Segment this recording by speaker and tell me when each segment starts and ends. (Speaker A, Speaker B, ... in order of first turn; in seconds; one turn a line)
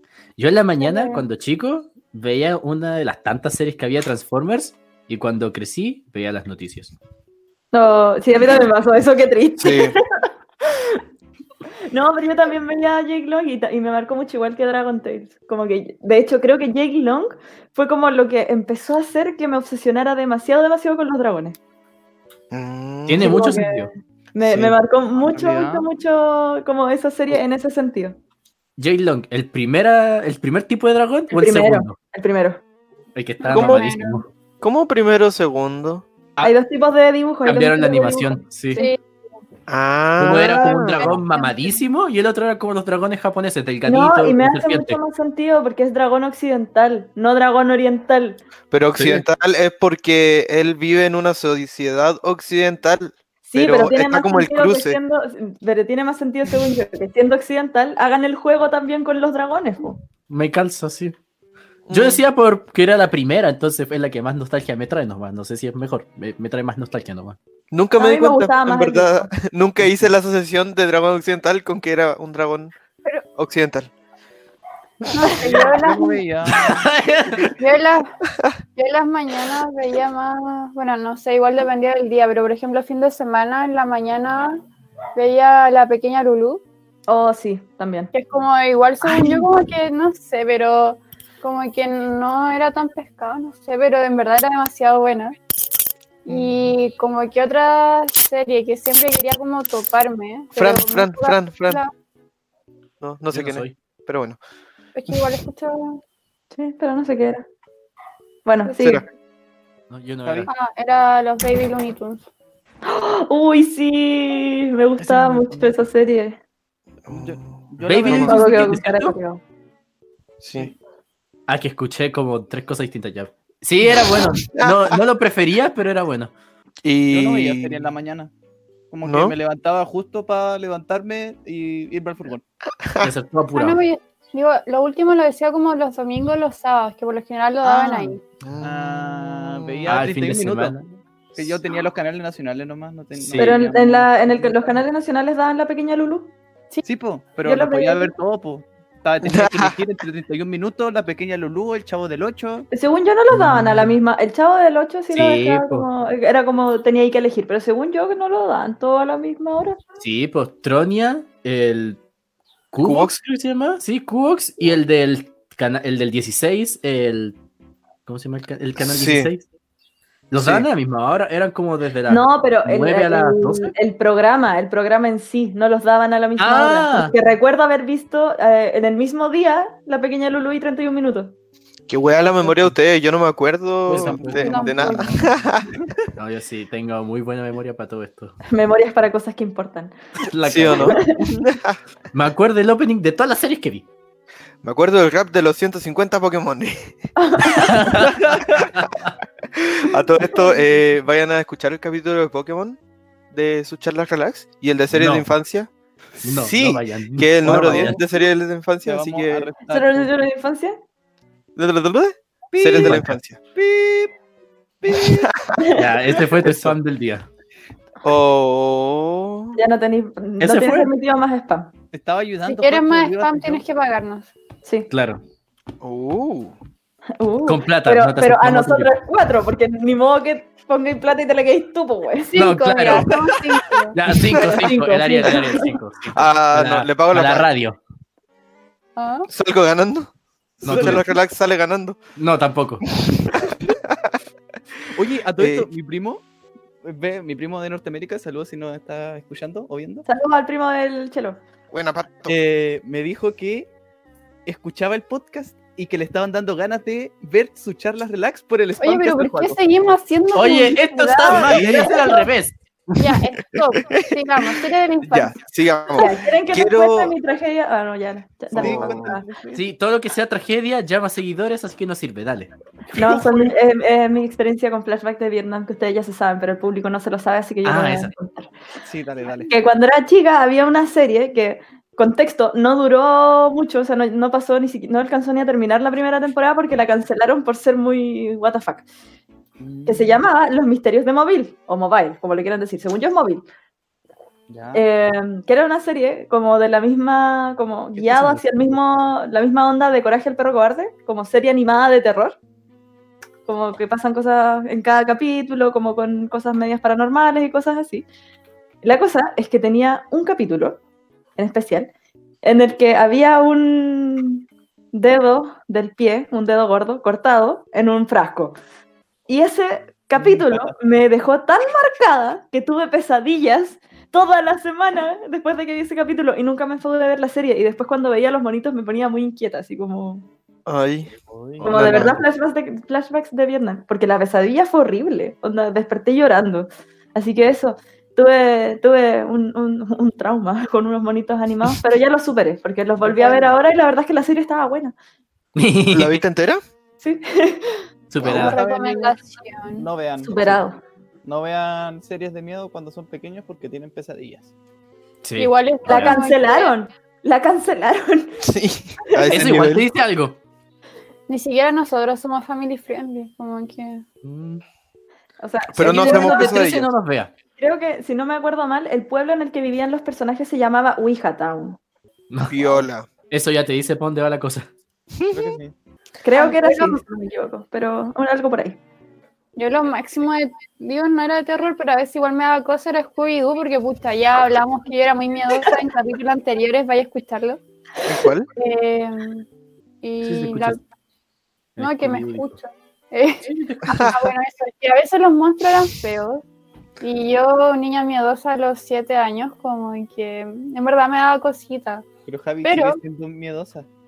Speaker A: 0.4-6.9
Speaker B: 0.9-1.2
Speaker C: 7.7-11.0
Speaker D: 9.6-10.0
Speaker C: 11.9-21.6
Speaker D: 22.5-23.3
Speaker A: 23.1-23.9
Speaker C: 23.2-28.2
Speaker A: 24.4-24.7
Speaker E: 25.2-25.9
Speaker A: 28.8-31.9
Speaker C: 31.3-32.6
Speaker A: 33.1-34.3
Speaker B: 33.4-34.2
Speaker D: 33.5-33.9
Speaker D: 34.6-36.1
Speaker C: 36.4-38.9
Speaker A: 37.5-38.8
Speaker D: 39.7-41.2
Speaker A: 40.2-45.0
Speaker B: 41.0-41.8
Speaker C: 43.9-48.4
Speaker D: 48.7-55.0
Speaker A: 49.0-49.2
Speaker C: 53.5-60.0
Speaker A: 60.3-61.1
Speaker D: 61.9-62.2
Speaker A: 61.9-67.4
Speaker D: 67.7-72.7
Speaker C: 68.0-69.3
Speaker D: 73.4-73.9
Speaker B: 75.1-76.2
Speaker E: 75.4-76.9
Speaker A: 76.5-77.5
Speaker B: 77.6-78.1
Speaker B: 78.8-84.6
Speaker B: 85.2-86.6
Speaker C: 87.1-88.1
Speaker B: 88.1-95.3
Speaker C: 89.0-89.5
Speaker B: 96.2-101.9
Speaker D: 100.6-101.8
Speaker D: 103.0-104.4
Speaker A: 103.3-103.8
Speaker B: 105.0-106.0
Speaker C: 106.5-107.5
Speaker C: 108.5-109.0
Speaker A: 109.9-110.5
Speaker E: 110.2-110.5
Speaker B: 110.5-112.2
Speaker C: 112.8-116.4
Speaker E: 115.0-115.8
Speaker D: 117.1-118.3
Speaker E: 117.1-118.8
Speaker A: 117.8-119.2
Speaker C: 118.1-119.4
Speaker D: 120.4-120.7
Speaker A: 121.5-126.3
Speaker D: 123.9-125.0
Speaker D: 126.8-127.9
Speaker E: 127.1-128.3
Speaker E: 128.9-132.4
Speaker D: 129.1-129.3
Speaker D: 132.8-133.1
Speaker A: 133.0-133.8
Speaker B: 133.6-138.2
Speaker D: 138.4-140.0
Speaker E: 138.6-140.8
Speaker A: 139.9-140.8
Speaker E: 141.3-144.8
Speaker A: 143.2-143.6
Speaker C: 143.4-146.3
Speaker E: 146.8-152.7
Speaker C: 147.4-148.1
Speaker D: 149.2-149.8
Speaker C: 152.7-159.8
Speaker A: 153.3-153.9
Speaker A: 155.1-155.9
Speaker A: 160.0-162.0
Speaker A: 162.7-167.4
Speaker D: 162.8-163.2
Speaker A: 168.1-169.4
Speaker D: 168.8-169.3
Speaker A: 170.3-173.7
Speaker D: 170.4-170.7
Speaker C: 172.1-181.4
Speaker A: 176.4-177.2
Speaker D: 181.9-185.8
Speaker A: 183.9-185.3
Speaker E: 183.9-184.6
Speaker B: 184.4-185.2
Speaker A: 186.2-188.4
Speaker C: 188.5-189.9
Speaker A: 190.2-191.1
Speaker D: 190.4-191.8
Speaker C: 190.7-191.4
Speaker A: 192.1-193.9
Speaker D: 194.6-197.0
Speaker C: 197.2-198.1
Speaker A: 197.5-199.1
Speaker E: 198.1-198.5
Speaker D: 198.3-198.7
Speaker D: 199.6-202.8
Speaker C: 200.2-200.6
Speaker D: 203.3-205.7
Speaker A: 204.9-205.3
Speaker A: 206.2-208.0
Speaker D: 206.2-209.5
Speaker E: 207.5-208.0
Speaker E: 208.8-210.1
Speaker C: 209.7-210.8
Speaker D: 211.6-213.4
Speaker E: 212.5-213.0
Speaker A: 212.8-213.2
Speaker E: 213.5-214.1
Speaker E: 214.8-215.3
Speaker D: 214.9-215.7
Speaker C: 215.6-216.2
Speaker A: 215.8-217.3
Speaker D: 216.4-216.8
Speaker D: 218.0-219.6
Speaker C: 219.6-221.7
Speaker A: 220.4-220.9
Speaker E: 221.9-223.6
Speaker B: 222.5-224.3
Speaker A: 224.9-225.2
Speaker D: 225.8-226.6
Speaker C: 227.2-232.3
Speaker A: 227.5-228.9
Speaker B: 232.3-234.0
Speaker A: 232.3-233.2
Speaker A: 233.9-237.8
Speaker C: 234.3-235.7
Speaker D: 236.1-237.5
Speaker B: 239.0-239.3
Speaker D: 239.3-242.0
Speaker A: 240.6-241.1
Speaker E: 240.7-241.1
Speaker A: 242.2-242.9
Speaker D: 243.0-244.2
Speaker E: 244.9-246.2
Speaker D: 245.4-245.7
Speaker E: 246.8-250.1
Speaker C: 250.1-251.4
Speaker D: 251.7-252.4
Speaker E: 252.3-253.7
Speaker E: 254.5-259.6
Speaker B: 258.8-262.2
Speaker A: 260.3-262.6
Speaker E: 261.4-261.8
Speaker D: 261.4-262.0
Speaker B: 263.0-265.4
Speaker D: 265.0-267.1
Speaker C: 265.9-269.3
Speaker E: 268.5-269.6
Speaker D: 268.6-269.2
Speaker A: 269.5-272.5
Speaker C: 273.0-278.5
Speaker E: 273.0-273.4
Speaker A: 277.6-278.1
Speaker E: 278.9-279.5
Speaker C: 279.4-288.9
Speaker E: 289.6-290.2
Speaker C: 289.9-293.4
Speaker E: 294.5-294.8
Speaker C: 294.7-302.4
Speaker E: 298.0-298.6
Speaker C: 303.5-308.1
Speaker C: 308.8-310.8
Speaker C: 311.4-311.9
Speaker C: 312.4-318.6
Speaker C: 319.3-330.3
Speaker E: 320.2-320.7
Speaker D: 330.7-331.1
Speaker E: 331.1-332.2
Speaker D: 331.6-332.2
Speaker C: 331.6-344.9
Speaker E: 343.0-343.6
Speaker A: 345.6-346.2
Speaker D: 345.9-346.6
Speaker C: 347.0-347.8
Speaker A: 348.1-348.6
Speaker E: 348.2-349.2
Speaker B: 348.3-349.9
Speaker E: 349.8-350.7
Speaker C: 350.2-350.8
Speaker E: 351.2-354.5
Speaker A: 355.2-356.2
Speaker B: 355.4-356.8
Speaker C: 355.9-358.4
Speaker D: 358.4-359.9
Speaker C: 359.2-359.5
Speaker A: 359.3-360.4
Speaker B: 361.3-364.0
Speaker A: 364.2-364.6
Speaker C: 365.4-366.6
Speaker D: 365.7-366.9
Speaker A: 365.8-367.3
Speaker C: 367.6-371.8
Speaker A: 372.3-372.6
Speaker D: 372.5-373.1
Speaker A: 373.3-374.7
Speaker D: 375.2-375.6
Speaker E: 375.3-375.7
Speaker C: 376.2-378.8
Speaker B: 376.3-377.0
Speaker B: 379.6-387.6
Speaker D: 388.0-388.5
Speaker B: 388.6-389.5
Speaker B: 390.0-390.8
Speaker A: 390.2-390.8
Speaker A: 391.8-392.5
Speaker B: 391.8-396.4
Speaker A: 393.4-394.1
Speaker D: 393.9-394.3
Speaker B: 397.0-402.1
Speaker E: 402.3-403.9
Speaker B: 402.6-403.0